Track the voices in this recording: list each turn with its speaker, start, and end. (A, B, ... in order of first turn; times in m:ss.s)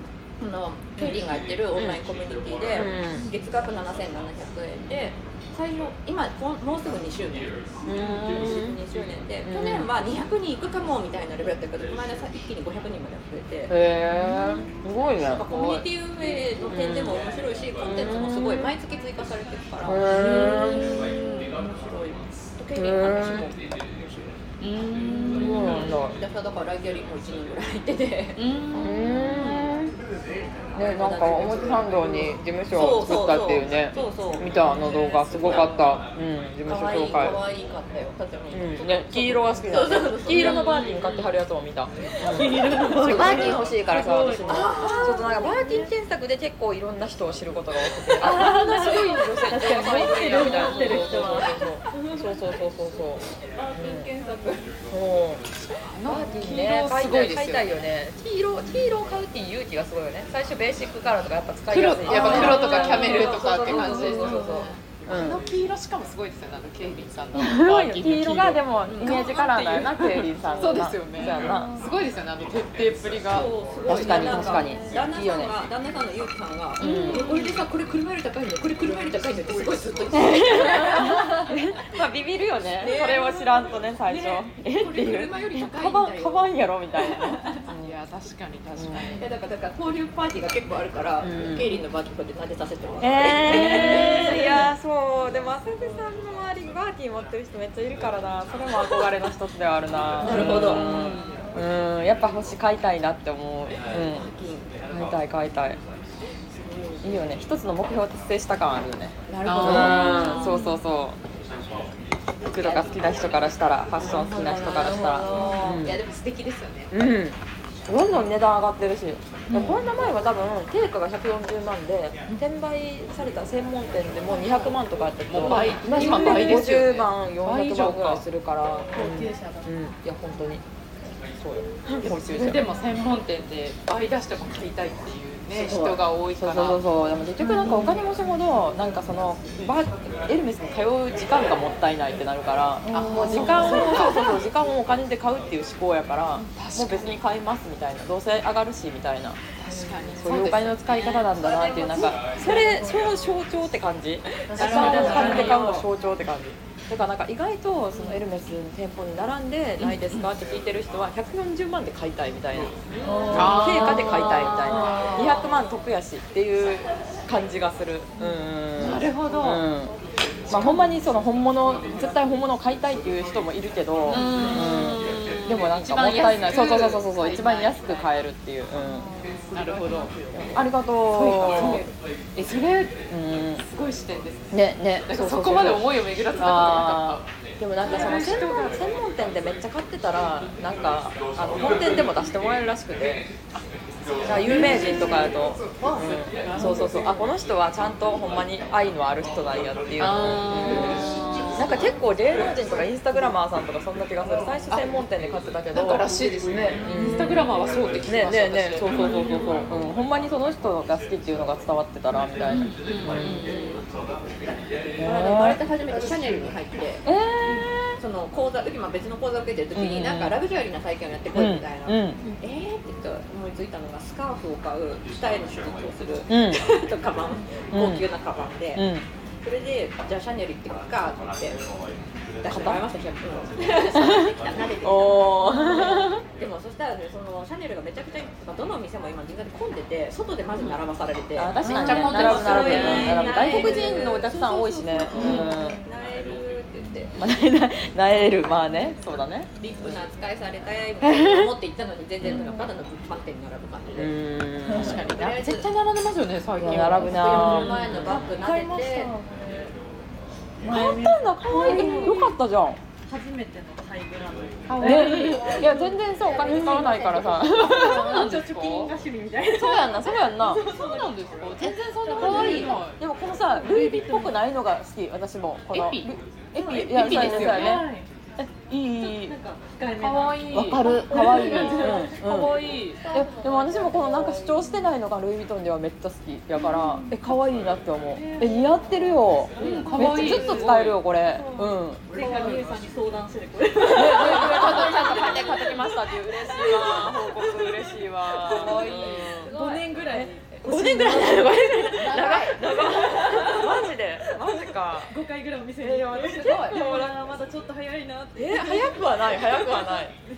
0:00.4-0:13.8 A
0:02.8-0:03.3 B
0:07.9-0:08.8 B
0:09.5-0:09.9 B
0:13.7-0:15.5 B
0:15.2-0:24.4 A
0:15.5-0:15.8 C
0:16.7-0:17.2 B
0:17.8-0:18.7 B
0:19.8-0:21.1 B
0:20.1-0:21.6 C
0:22.8-0:23.5 B
0:24.6-0:25.8 C
0:25.0-0:28.4 A
0:25.3-0:26.2 B
0:28.4-0:29.4 C
0:28.8-0:29.9 B
0:29.0-0:29.7 A
0:30.8-0:37.4 B
0:30.8-0:35.9 A
0:36.6-0:41.2 A
0:38.5-0:53.2 B
0:42.2-0:45.9 D
0:42.8-0:43.7 A
0:44.4-0:45.4 A
0:48.2-0:52.3 D
0:48.2-0:48.7 A
0:50.3-0:51.3 C
0:53.6-0:54.6 A
0:53.8-0:54.1 B
0:54.9-0:55.4 B
0:55.8-0:57.7 C
0:56.0-1:05.4 B
1:01.7-1:13.5 C
1:02.1-1:04.6 A
1:02.3-1:02.6 D
1:07.4-1:11.8 B
1:08.9-1:09.3 A
1:10.4-1:10.8 A
1:11.4-1:11.8 D
1:13.3-1:21.4 A
1:13.9-1:15.5 B
1:14.4-1:14.8 D
1:16.8-1:17.3 B
1:16.8-1:17.6 C
1:20.2-1:27.9 B
1:22.8-1:27.6 A
1:27.7-1:29.3 C
1:28.8-1:29.1 B
1:29.1-1:34.7 A
1:31.2-1:31.8 B
1:33.0-1:44.3 B
1:40.2-1:41.0 A
1:40.2-1:41.3 C
1:44.0-1:44.7 A
1:44.9-1:45.8 B
1:46.6-1:47.2 A
1:47.0-1:51.2 B
1:49.3-1:50.6 A
1:49.4-1:50.8 C
1:52.5-1:56.0 B
1:52.5-1:53.2 A
1:54.0-1:56.9 A
1:56.9-2:10.6 B
1:59.5-1:59.8 C
2:05.3-2:08.2 C
2:05.5-2:06.2 A
2:08.9-2:09.7 D
2:11.4-2:12.6 B
2:12.0-2:16.8 C
2:15.5-2:16.0 A
2:16.4-2:29.4 B
2:17.4-2:18.0 D
2:22.9-2:24.4 D
2:22.9-2:24.3 C
2:26.5-2:27.2 C
2:29.6-2:31.4 C
2:30.2-2:42.7 B
2:31.8-2:32.1 A
2:31.8-2:33.0 D
2:34.5-2:35.6 D
2:34.5-2:35.9 C
2:34.6-2:35.6 A
2:39.8-2:40.3 C
2:42.9-2:45.4 A
2:43.0-2:45.4 D
2:43.3-2:50.0 B
2:43.3-2:45.3 C
2:48.3-2:49.6 C
2:50.5-2:59.1 B
2:50.5-2:50.9 C
2:54.1-2:58.0 C
2:54.2-2:54.6 A
2:58.8-2:59.6 D
2:59.5-3:00.1 C
3:00.5-3:01.9 B
3:01.1-3:03.0 C
3:03.1-3:03.6 B
3:03.6-3:07.2 C
3:04.5-3:13.2 B
3:07.8-3:08.8 C
3:13.6-3:15.3 C
3:14.3-3:21.0 B
3:14.5-3:15.0 A
3:15.8-3:16.3 A
3:16.3-3:17.1 C
3:20.0-3:21.7 C
3:20.6-3:21.7 A
3:21.6-3:27.5 B
3:25.7-3:29.7 C
3:28.0-3:33.4 B
3:32.5-3:33.6 C
3:33.1-3:33.9 A
3:34.9-3:37.0 A
3:35.0-3:35.6 B
3:37.0-3:38.0 B
3:38.0-3:48.9 A
3:39.8-3:40.4 B
3:41.3-3:42.2 B
3:46.3-3:46.6 B
3:47.7-3:48.1 B
3:48.8-3:49.0 B
3:49.4-3:51.6 A
3:52.4-4:07.1 A
3:52.5-3:52.8 B
3:54.0-3:56.2 B
4:01.4-4:05.8 B
4:01.6-4:03.8 C
4:01.6-4:04.2 D
4:05.1-4:05.9 D
4:05.2-4:05.5 C
4:07.2-4:09.5 B
4:09.6-4:14.2 A
4:09.6-4:10.0 D
4:11.0-4:11.5 B
4:12.2-4:12.5 B
4:12.2-4:12.7 D
4:14.0-4:15.0 B
4:14.7-4:15.0 D
4:14.7-4:18.2 C
4:15.0-4:15.7 A
4:16.6-4:18.7 B
4:16.9-4:19.1 A
4:17.4-4:17.8 D
4:18.4-4:19.7 D
4:20.6-4:22.4 D
4:20.7-4:22.8 B
4:21.6-4:22.1 C
4:23.1-4:34.4 D
4:24.7-4:25.6 C
4:24.8-4:28.1 B
4:26.6-4:27.2 A
4:27.5-4:28.9 C
4:29.5-4:30.6 B
4:30.5-4:33.0 C
4:32.2-4:39.4 B
4:35.7-4:37.9 C
4:36.6-4:38.1 D
4:38.8-4:44.9 D
4:40.0-4:43.0 C
4:40.5-4:52.0 B
4:46.5-4:47.2 D
4:48.1-5:03.8 D
4:49.6-4:51.0 C
4:49.6-4:49.9 A
4:52.1-4:52.7 C
4:53.8-4:59.5 B
4:54.1-4:55.6 A
4:58.5-4:59.9 A
4:58.6-4:59.3 C
5:00.1-5:05.2 B
5:02.0-5:03.8 A
5:05.0-5:10.1 D
5:05.8-5:07.2 B
5:08.4-5:10.1 B